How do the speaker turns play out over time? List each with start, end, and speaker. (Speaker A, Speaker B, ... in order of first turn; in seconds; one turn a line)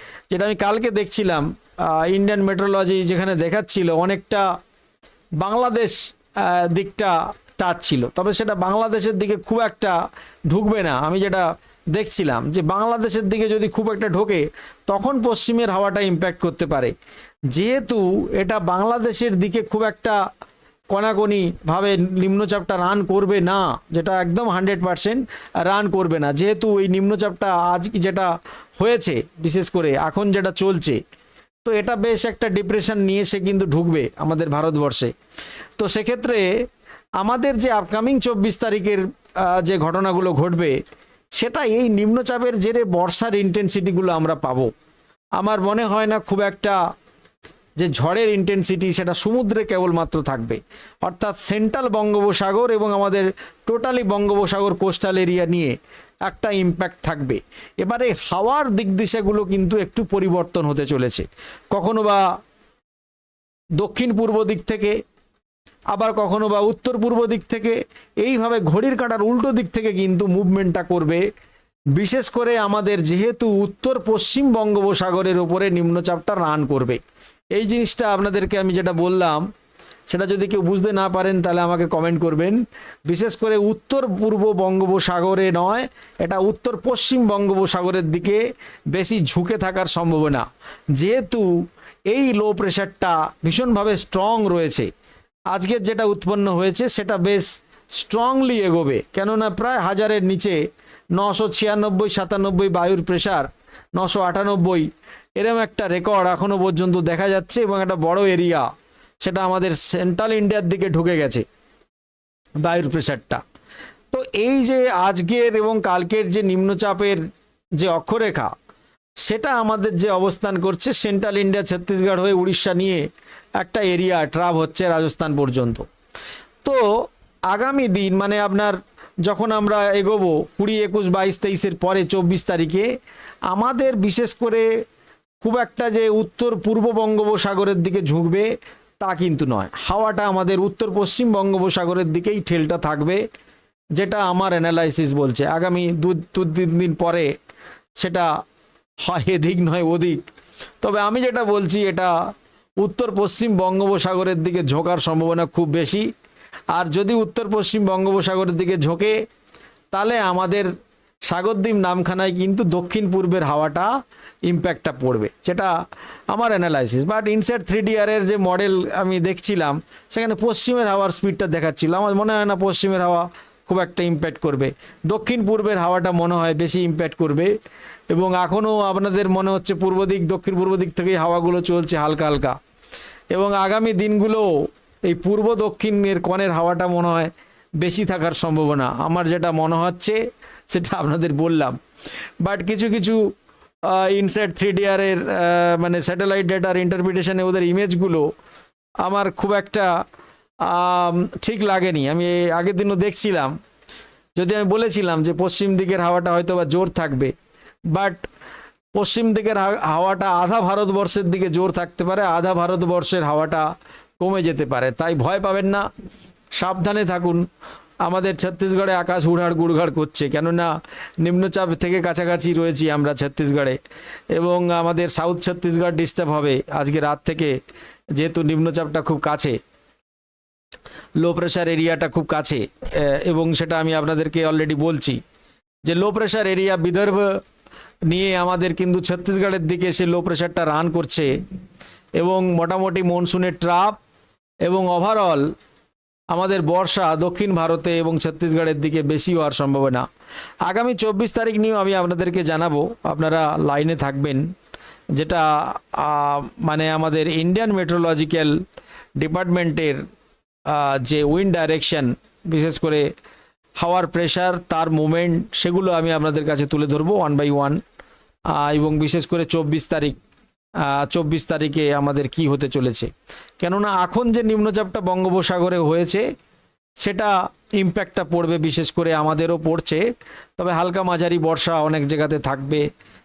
Speaker A: 0.3-4.5
Speaker A: 5.4-10.0
Speaker A: 10.5-16.9
Speaker A: 17.5-20.2
Speaker A: 20.9-28.3
Speaker A: 28.8-31.0
Speaker A: 31.6-35.1
Speaker A: 35.8-36.5
Speaker A: 37.2-40.8
Speaker A: 41.4-44.7
Speaker A: 45.4-46.8
Speaker A: 47.8-62.2
Speaker A: 63.8-65.0
Speaker A: 65.9-71.2
Speaker A: 71.9-77.0
Speaker A: 77.5-79.4
Speaker A: 80.1-91.5
Speaker A: 92.1-94.9
Speaker A: 95.5-100.6
Speaker A: 101.1-108.7
Speaker A: 109.2-111.5
Speaker A: 112.6-113.4
Speaker A: 114.1-117.2
Speaker A: 117.8-118.5
Speaker A: 119.2-123.0
Speaker A: 123.6-125.9
Speaker A: 126.6-132.9
Speaker A: 133.5-134.7
Speaker A: 135.4-138.5
Speaker A: 139.0-143.2
Speaker A: 144.0-147.3
Speaker A: 148.0-148.3
Speaker A: 149.0-150.2
Speaker A: 150.8-152.1
Speaker A: 152.8-156.1
Speaker A: 156.7-159.2
Speaker A: 159.9-160.7
Speaker A: 161.3-163.9
Speaker A: 164.5-165.7
Speaker A: 166.3-177.5
Speaker A: 178.1-182.6
Speaker A: 183.3-184.5
Speaker A: 185.1-191.8
Speaker A: 192.4-193.3
Speaker A: 193.8-198.3
Speaker A: 199.0-199.9
Speaker A: 200.6-203.5
Speaker A: 204.4-207.3
Speaker A: 207.9-208.3
Speaker A: 209.0-213.7
Speaker A: 214.2-215.8
Speaker A: 216.6-217.4
Speaker A: 218.0-220.7
Speaker A: 221.2-223.8
Speaker A: 224.3-227.6
Speaker A: 228.2-229.6
Speaker A: 231.2-235.2
Speaker A: 235.9-237.3
Speaker A: 238.1-241.3
Speaker A: 242.2-244.0
Speaker A: 244.7-245.5
Speaker A: 246.3-250.1
Speaker A: 250.7-254.5
Speaker A: 255.2-258.6
Speaker A: 259.2-260.0
Speaker A: 260.7-263.1
Speaker A: 263.8-267.8
Speaker A: 268.5-270.2
Speaker A: 270.8-276.2
Speaker A: 277.0-280.0
Speaker A: 280.6-282.9